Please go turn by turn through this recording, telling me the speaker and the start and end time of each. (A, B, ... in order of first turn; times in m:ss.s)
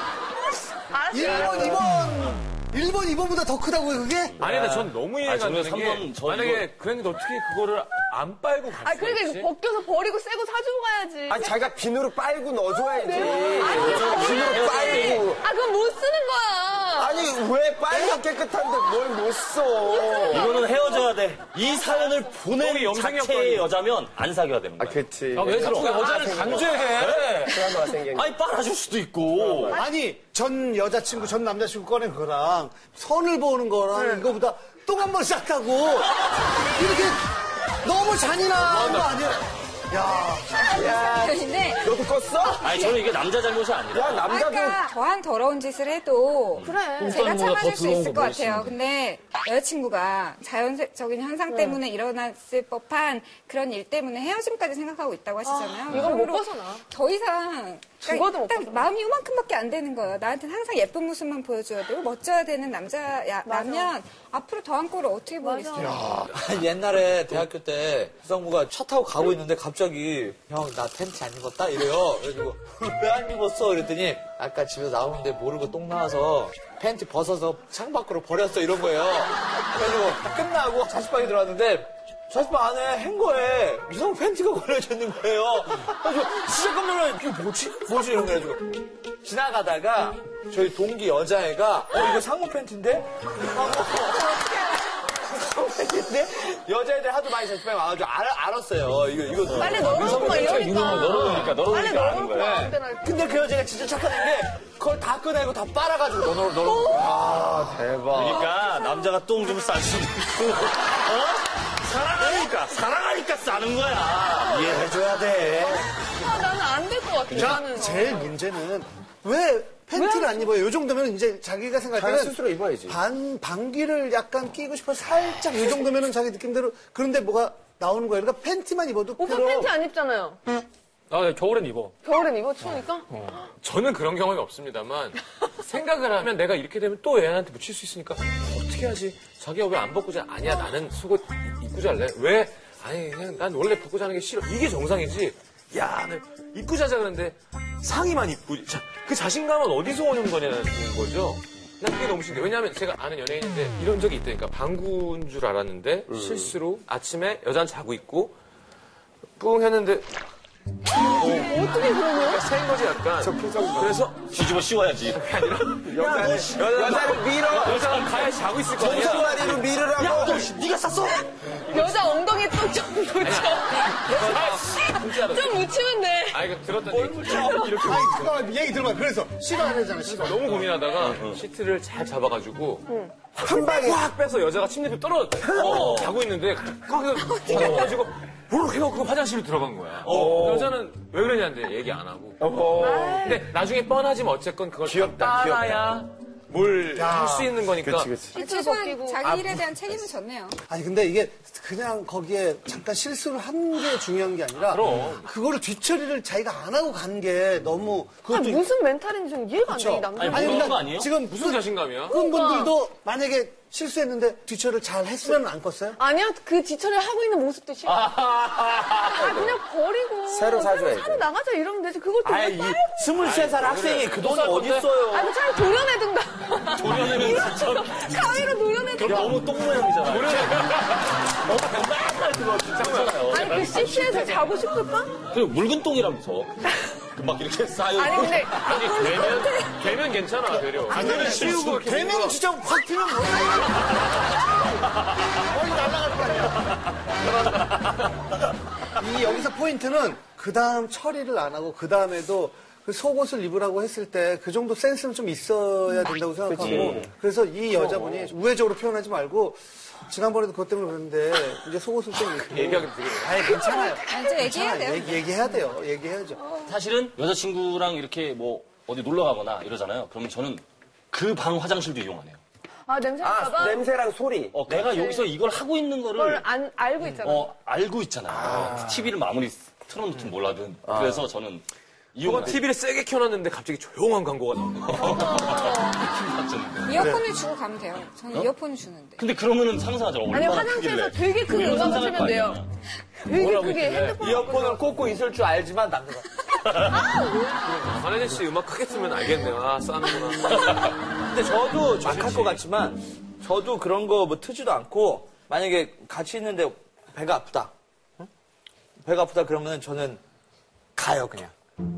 0:01.0-0:01.8 A
0:01.1-0:04.4 B
0:04.4-0:06.7 C
0:04.4-0:09.5 D
0:08.9-0:09.6 E
0:09.6-0:11.2 A
0:11.3-0:15.5 F
0:12.8-0:14.8 E
0:13.4-0:15.4 C
0:15.6-0:16.8 A
0:16.9-0:20.7 F
0:16.9-0:17.3 E
0:19.9-0:20.4 E
0:20.3-0:29.8 C
0:22.6-0:23.7 D
0:24.8-0:26.7 F
0:25.3-0:27.2 D
0:27.5-0:28.3 F
0:29.4-0:29.8 F
0:29.7-0:36.2 B
0:36.8-0:37.2 B
0:37.8-0:40.7 B
0:38.7-0:39.2 D
0:40.6-0:42.9 F
0:40.8-0:41.9 E
0:42.6-0:44.4 C
0:43.9-0:44.9 F
0:44.3-1:06.0 E
0:46.2-0:47.8 A
0:46.6-0:48.7 C
0:47.0-0:48.7 D
0:51.5-0:51.8 A
0:55.4-0:56.8 A
0:58.0-0:59.0 A
1:03.5-1:03.9 A
1:05.4-1:06.0 A
1:05.8-1:28.7 G
1:29.2-1:34.5 G
1:35.2-1:41.6 G
1:39.5-1:42.6 C
1:39.7-1:40.9 A
1:42.0-1:43.0 A
1:42.3-1:48.5 G
1:48.1-1:54.8 C
1:54.5-1:55.9 B
1:56.3-1:58.3 A
1:57.3-2:09.8 B
2:02.0-2:02.9 F
2:09.2-2:10.4 A
2:11.1-2:11.9 D
2:12.1-2:12.9 A
2:13.2-2:38.4 D
2:36.2-2:36.4 F
2:39.4-2:40.1 D
2:41.2-2:41.6 D
2:41.6-2:42.0 A
2:42.2-2:44.3 D
2:43.2-2:44.0 F
2:44.3-2:48.3 C
2:45.1-2:50.5 D
2:45.9-2:48.2 F
2:48.8-2:50.5 F
2:48.8-2:51.3 C
2:51.7-2:52.2 D
2:51.8-2:52.2 E
2:52.2-2:53.3 A
2:53.2-2:55.6 D
2:54.2-2:54.5 E
2:55.1-2:56.3 A
2:56.3-2:58.4 D
2:56.9-2:57.7 G
2:57.8-3:00.8 B
3:00.0-3:18.3 D
3:01.0-3:01.4 C
3:03.3-3:04.1 F
3:05.4-3:05.7 F
3:05.6-3:06.1 C
3:07.5-3:07.8 F
3:10.1-3:10.7 F
3:12.4-3:13.4 F
3:12.8-3:13.3 E
3:14.9-3:15.8 F
3:17.0-3:17.6 B
3:17.8-3:18.4 F
3:18.3-3:20.6 E
3:18.4-3:19.4 A
3:19.2-3:19.6 D
3:20.7-3:28.7 B
3:24.6-3:25.3 D
3:28.3-3:30.3 A
3:29.6-3:36.0 B
3:30.2-3:31.2 C
3:31.2-3:32.2 D
3:32.4-3:32.6 A
3:36.0-3:38.1 A
3:38.1-3:38.6 C
3:39.1-3:42.9 A
3:40.2-3:41.4 F
3:40.4-3:41.2 E
3:42.2-3:45.3 G
3:43.2-3:44.9 D
3:45.2-3:49.0 A
3:46.7-3:47.9 C
3:49.0-3:50.7 C
3:49.1-3:49.4 D
3:50.0-3:51.6 D
3:51.5-3:53.7 C
3:52.7-3:54.4 D
3:53.7-3:55.1 A
3:53.7-3:54.3 E
3:55.3-3:56.5 C
3:57.2-3:58.8 C
3:58.6-4:02.4 D
3:58.8-3:59.4 E
3:59.0-3:59.6 A
4:00.9-4:04.0 B
4:00.9-4:01.7 C
4:05.4-4:07.6 B
4:09.0-4:19.6 B
4:16.5-4:17.0 F
4:20.1-4:26.5 B
4:22.4-4:23.5 D
4:23.6-4:25.4 E
4:26.7-4:32.4 C
4:32.9-4:33.3 A
4:33.2-4:34.9 F
4:33.5-4:33.8 E
4:34.5-4:36.4 C
4:36.3-4:37.3 A
4:37.0-4:42.6 C
4:42.2-4:45.5 D
4:45.0-4:47.2 C
4:46.9-4:49.2 E
4:47.0-4:47.4 A
4:49.2-4:52.7 C
4:50.5-4:51.5 A
4:51.5-4:52.5 E
4:53.3-4:54.8 A
4:53.4-4:54.2 D
4:53.5-4:54.1 E
4:54.2-4:56.3 G
4:56.7-4:57.0 C
4:57.6-5:00.9 D
5:01.3-5:07.7 G
5:02.0-5:02.6 D
5:09.0-5:10.2 G
5:11.0-5:11.5 G